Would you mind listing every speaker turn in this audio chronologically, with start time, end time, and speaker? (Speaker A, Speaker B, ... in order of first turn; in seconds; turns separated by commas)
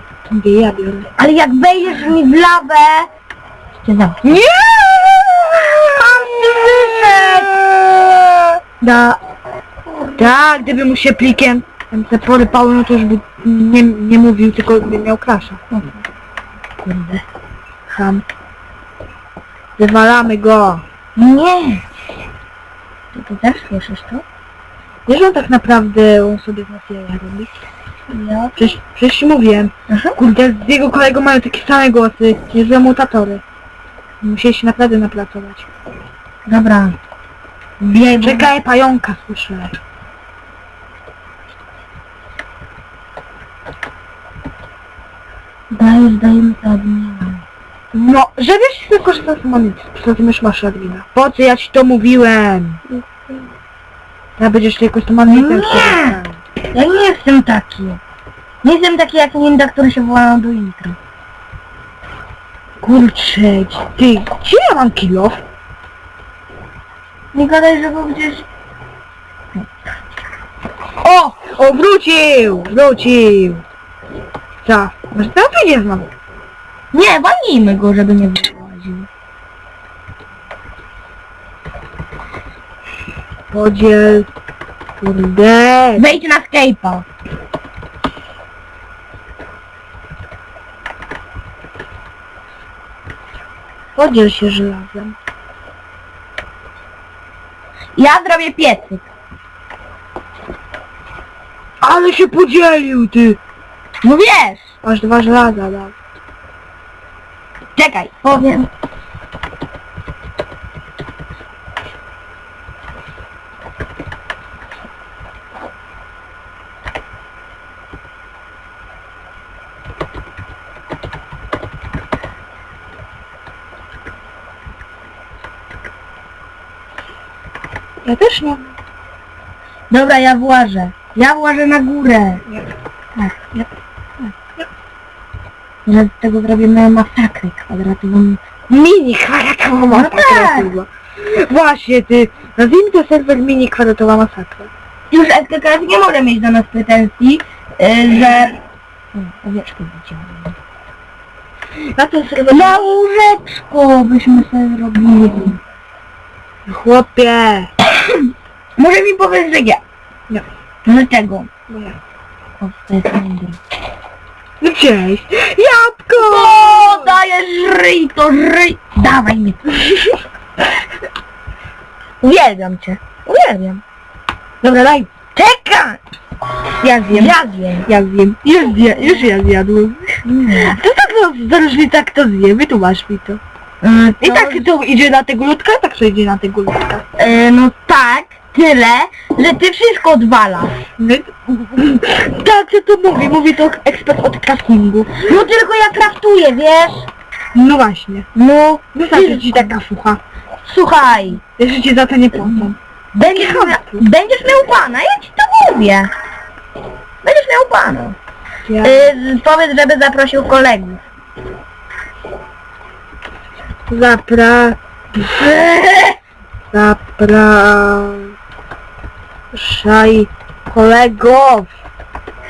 Speaker A: 0.3-1.1, Speaker B: 1.2-3.1, Speaker B: 3.9-8.2, Speaker A: 6.0-7.6, Speaker B: 8.8-9.2, Speaker B: 9.9-10.4, Speaker A: 10.2-15.6, Speaker B: 15.7-16.0, Speaker B: 16.9-17.2, Speaker A: 17.9-18.2, Speaker A: 19.8-20.8, Speaker B: 21.2-21.8, Speaker B: 23.1-24.2, Speaker A: 25.1-27.5, Speaker B: 28.1-28.8, Speaker A: 28.6-33.4, Speaker B: 29.9-30.2, Speaker A: 34.2-35.7, Speaker B: 36.5-37.0, Speaker B: 37.8-38.5, Speaker A: 38.2-39.8, Speaker B: 45.7-47.5, Speaker A: 47.9-52.8, Speaker B: 52.9-53.5, Speaker A: 54.4-56.4, Speaker B: 55.3-56.2, Speaker B: 56.7-58.0, Speaker B: 58.6-61.0, Speaker A: 62.8-65.4, Speaker B: 67.3-68.5, Speaker A: 71.1-73.6, Speaker A: 74.6-76.1, Speaker B: 76.9-79.1, Speaker A: 83.5-84.3, Speaker A: 85.0-86.2, Speaker B: 86.0-87.1, Speaker A: 94.0-95.2, Speaker B: 98.0-99.1, Speaker A: 101.8-103.4, Speaker B: 104.0-104.7, Speaker A: 104.8-105.9, Speaker B: 107.8-108.7, Speaker A: 128.1-128.8, Speaker B: 129.9-132.4, Speaker B: 133.2-133.7, Speaker B: 135.9-140.7, Speaker A: 139.5-144.7, Speaker B: 145.1-148.6, Speaker B: 149.2-150.6, Speaker A: 151.9-153.0, Speaker B: 152.5-155.6, Speaker A: 156.7-157.7, Speaker B: 158.8-159.8, Speaker B: 160.8-161.5, Speaker A: 161.7-162.0, Speaker B: 162.6-163.6, Speaker A: 164.6-167.1, Speaker B: 166.2-169.8, Speaker B: 172.2-173.8, Speaker A: 174.6-175.1, Speaker B: 175.3-176.0, Speaker A: 176.8-183.4, Speaker B: 177.1-177.9, Speaker B: 179.0-179.3, Speaker B: 180.2-180.8, Speaker B: 183.8-184.7, Speaker A: 184.2-187.1, Speaker B: 187.2-190.8, Speaker A: 191.0-195.2, Speaker B: 195.2-197.1, Speaker A: 197.6-198.3, Speaker B: 198.3-199.8, Speaker A: 198.9-200.2, Speaker B: 200.7-201.4, Speaker A: 201.6-204.0, Speaker B: 203.2-206.1, Speaker B: 207.2-208.2, Speaker A: 208.7-209.2, Speaker B: 208.8-211.0, Speaker A: 213.9-214.8, Speaker B: 215.2-216.2, Speaker A: 216.7-218.3, Speaker A: 219.5-221.7